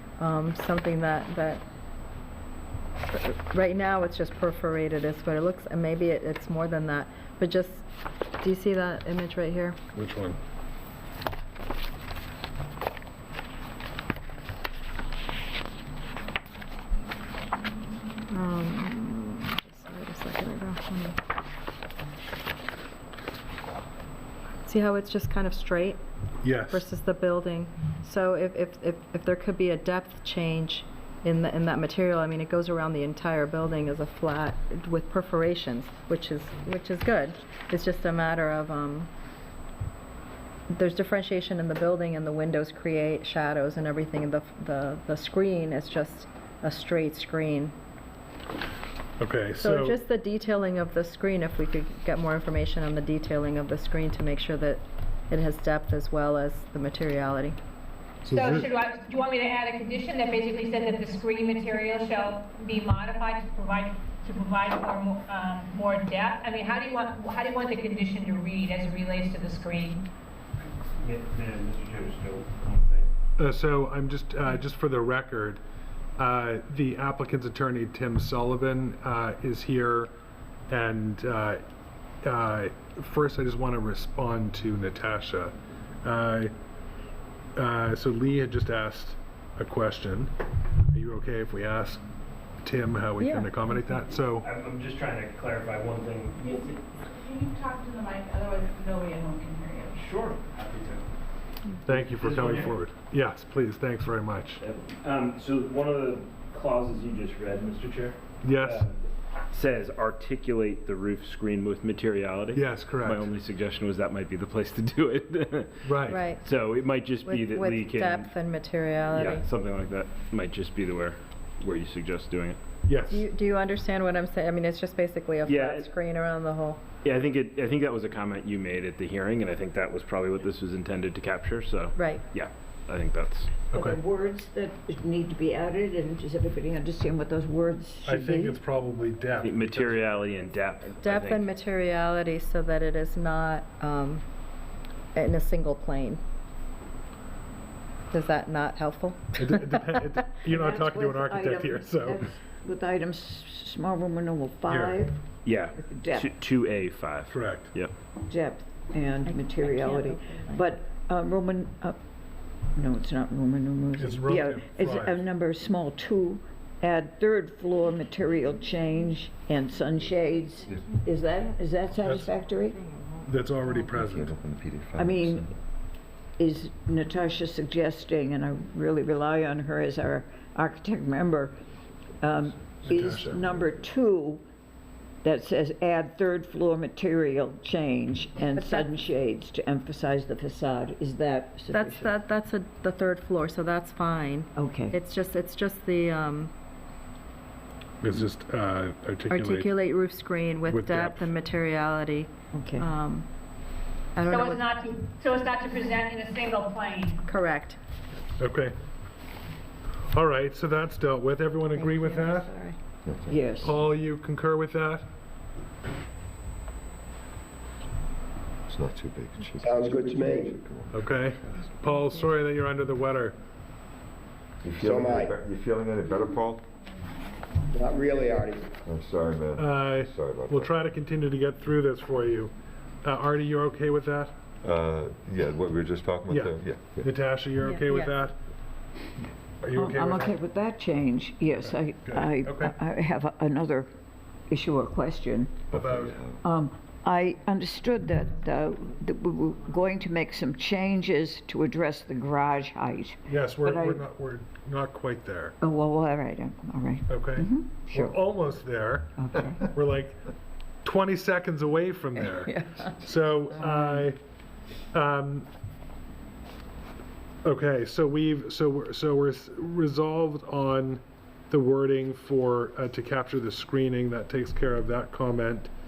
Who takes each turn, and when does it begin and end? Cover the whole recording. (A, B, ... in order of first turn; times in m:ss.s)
0:00.2-0:01.6 A
0:03.1-0:07.9 A
0:08.4-0:09.8 A
0:09.9-0:10.4 B
0:18.3-0:21.2 A
0:24.6-0:26.0 A
0:26.4-0:26.8 B
0:26.7-0:39.1 A
0:40.7-0:47.7 A
0:49.2-0:50.0 B
0:49.6-0:57.6 A
0:58.2-0:58.7 B
0:58.3-1:10.0 C
1:11.0-1:13.1 D
1:13.4-1:15.6 B
1:16.2-1:20.1 B
1:20.7-1:21.6 B
1:22.2-1:26.5 B
1:27.6-1:30.3 B
1:30.9-1:32.0 B
1:32.6-1:34.5 B
1:33.2-1:33.5 A
1:34.4-1:36.8 D
1:37.2-1:40.0 E
1:39.9-1:41.0 D
1:41.9-1:44.6 B
1:41.9-1:42.7 D
1:44.6-1:55.8 D
1:48.4-1:48.8 B
1:52.6-1:53.3 B
1:55.8-1:56.2 B
1:56.1-1:56.4 A
1:56.4-1:58.3 D
1:57.2-1:59.4 A
1:59.1-2:02.6 D
2:02.9-2:03.2 B
2:03.1-2:06.8 A
2:05.4-2:05.9 D
2:07.0-2:13.6 D
2:12.0-2:12.2 A
2:13.7-2:18.6 F
2:13.7-2:14.0 B
2:18.0-2:20.3 B
2:19.4-2:21.5 D
2:21.0-2:24.2 A
2:25.1-2:26.2 A
2:28.1-2:30.1 A
2:29.4-2:32.2 B
2:30.5-2:35.2 F
2:34.7-2:35.0 B
2:35.4-2:37.9 D
2:35.8-2:36.3 F
2:37.3-2:37.7 B
2:38.3-2:42.0 F
2:39.3-2:40.6 A
2:42.7-2:52.8 F
2:44.0-2:45.2 B
2:51.9-2:52.3 B
2:52.7-2:53.8 A
2:53.2-2:54.3 B
2:53.8-2:55.6 G
2:55.0-2:55.5 F
2:56.4-3:01.6 F
3:02.2-3:04.4 F
3:02.8-3:03.4 B
3:05.2-3:12.1 F
3:08.6-3:08.9 A
3:11.7-3:16.5 A
3:14.6-3:15.0 F
3:18.0-3:19.7 B
3:19.3-3:23.3 A
3:20.7-3:21.3 B
3:22.5-3:22.9 F
3:24.2-3:24.7 A
3:24.3-3:27.2 C
3:27.3-3:27.8 A
3:28.4-3:28.8 B
3:30.1-3:32.5 B
3:31.7-3:32.8 A
3:33.0-3:33.4 G
3:33.3-3:33.8 F
3:33.6-3:35.1 B
3:38.7-3:41.7 G
3:39.6-3:40.6 H
3:40.9-3:43.4 B
3:44.6-3:46.6 G
3:44.8-3:45.3 H
3:47.7-3:48.7 H
3:48.8-3:50.7 G
3:49.6-3:54.4 B
3:54.6-3:57.1 G
3:56.3-3:58.4 B
3:57.6-3:58.2 A
3:59.6-4:00.4 B
3:59.8-4:03.9 F
4:01.6-4:02.8 B
4:04.5-4:05.7 F
4:05.7-4:06.2 B
4:05.7-4:06.4 G
4:06.4-4:14.0 F
4:13.3-4:15.6 B
4:15.6-4:18.2 F
4:17.1-4:20.2 B
4:19.2-4:19.7 F
4:20.8-4:24.2 B
4:22.4-4:22.8 F
4:24.9-4:25.5 B
4:27.4-4:35.7 B